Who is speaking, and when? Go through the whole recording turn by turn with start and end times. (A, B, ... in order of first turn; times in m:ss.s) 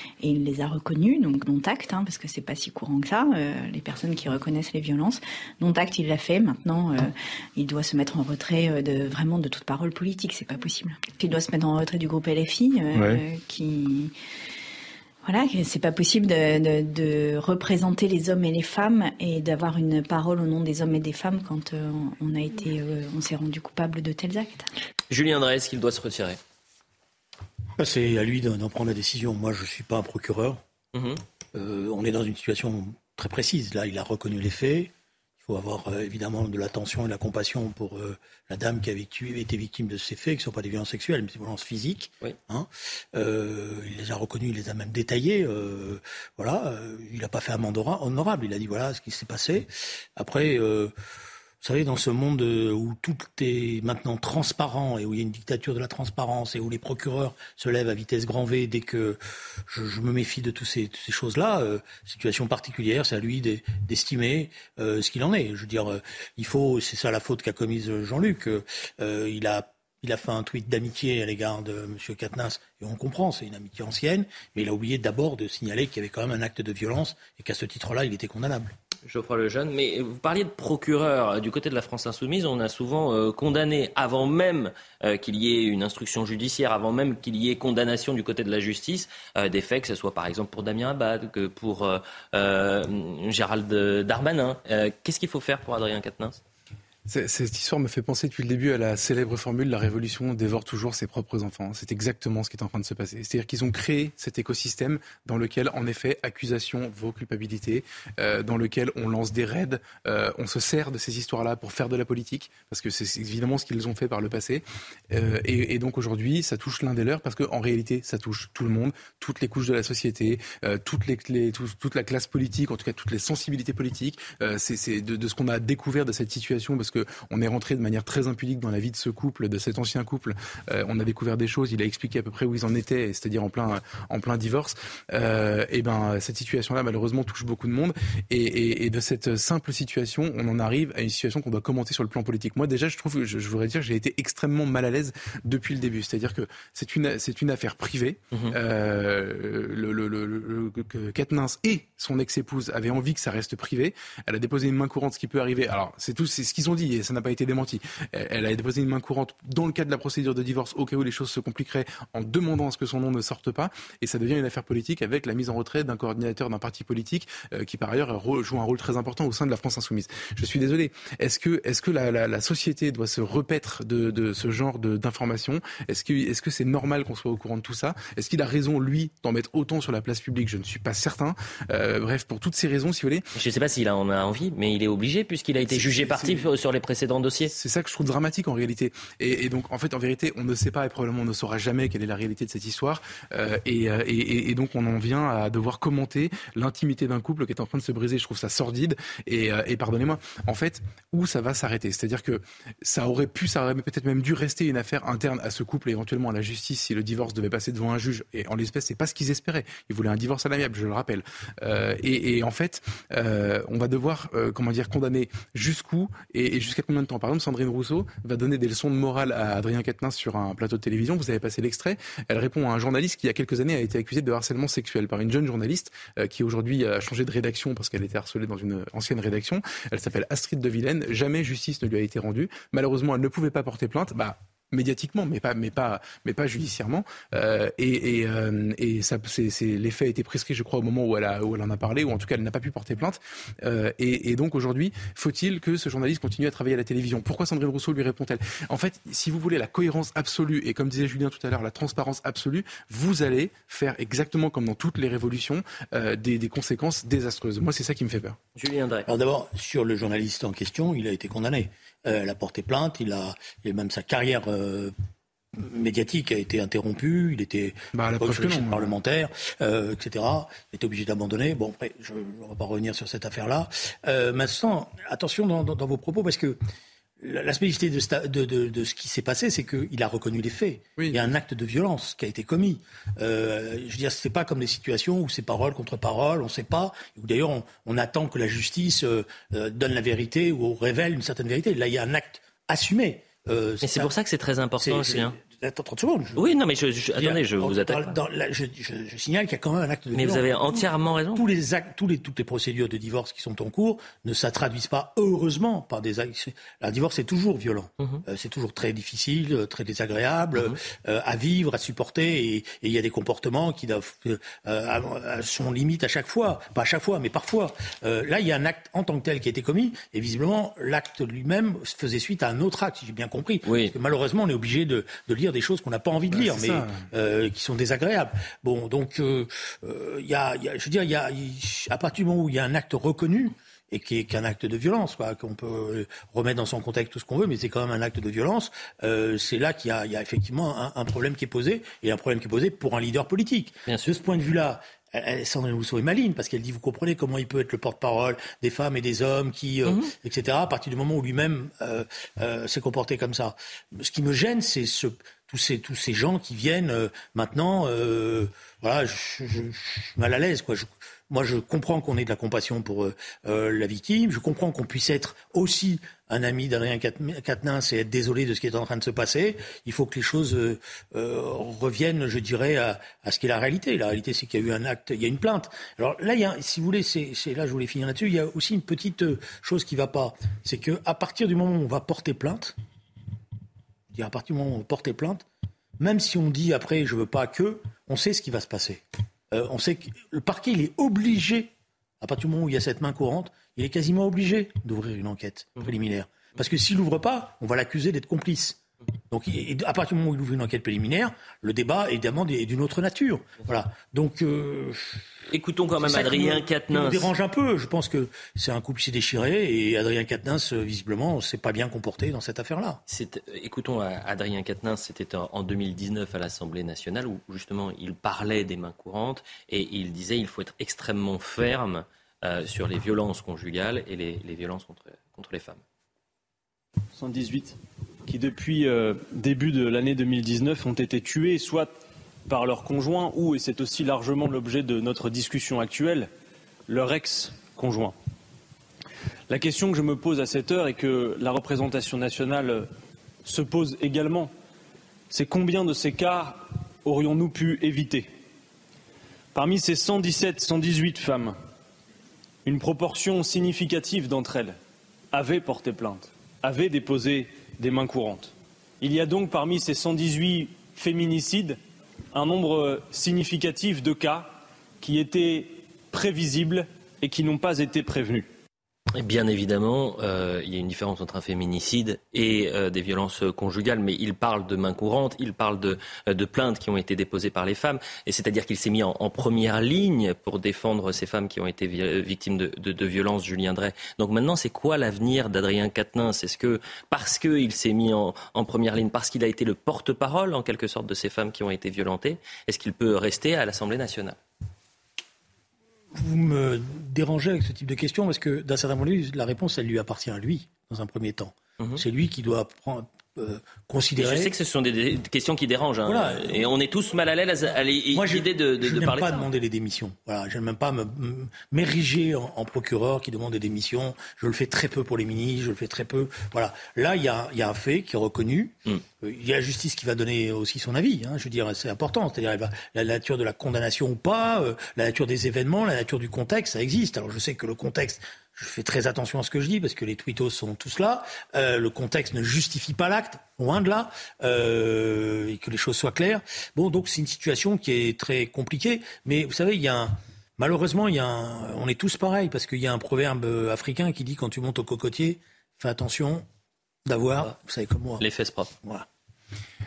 0:00.2-0:14.1 A
0:15.2-0:24.7 A
0:25.1-0:26.4 B
0:27.8-0:30.6 C
0:30.9-0:31.2 B
0:31.6-0:50.9 C
0:51.6-1:18.7 C
1:19.0-1:36.4 B
1:37.1-3:03.2 D
3:03.4-3:07.5 B
3:05.6-3:06.4 D
3:07.5-4:18.4 D
4:18.6-4:19.1 B
4:19.1-4:24.9 C
4:25.6-4:36.6 C
4:27.9-4:28.9 D
4:37.2-4:54.1 C
4:41.0-4:41.3 D
4:53.8-4:55.4 B
4:54.8-4:56.4 C
4:56.4-4:58.2 B
4:57.2-6:22.8 C
5:00.1-5:01.5 B
5:23.6-5:23.9 B
5:26.3-5:27.1 D
5:43.9-5:44.1 B
6:24.1-6:25.4 C
6:26.0-6:45.3 C
6:45.5-6:47.3 B
6:46.0-6:53.0 C
6:53.1-7:05.8 B
7:07.2-7:11.9 E
7:12.5-7:16.3 E
7:16.9-7:18.2 E
7:19.5-7:22.9 E
7:23.4-7:24.5 E
7:25.3-7:28.3 E
7:29.5-7:31.6 E
7:32.6-7:34.8 E
7:35.3-7:41.8 E
7:42.3-7:48.5 E
7:49.1-8:14.4 B
8:16.1-8:24.5 C
8:24.2-8:29.5 B
8:26.1-8:26.6 C
8:28.1-9:06.5 C
9:07.1-9:08.2 C
9:08.2-9:08.7 B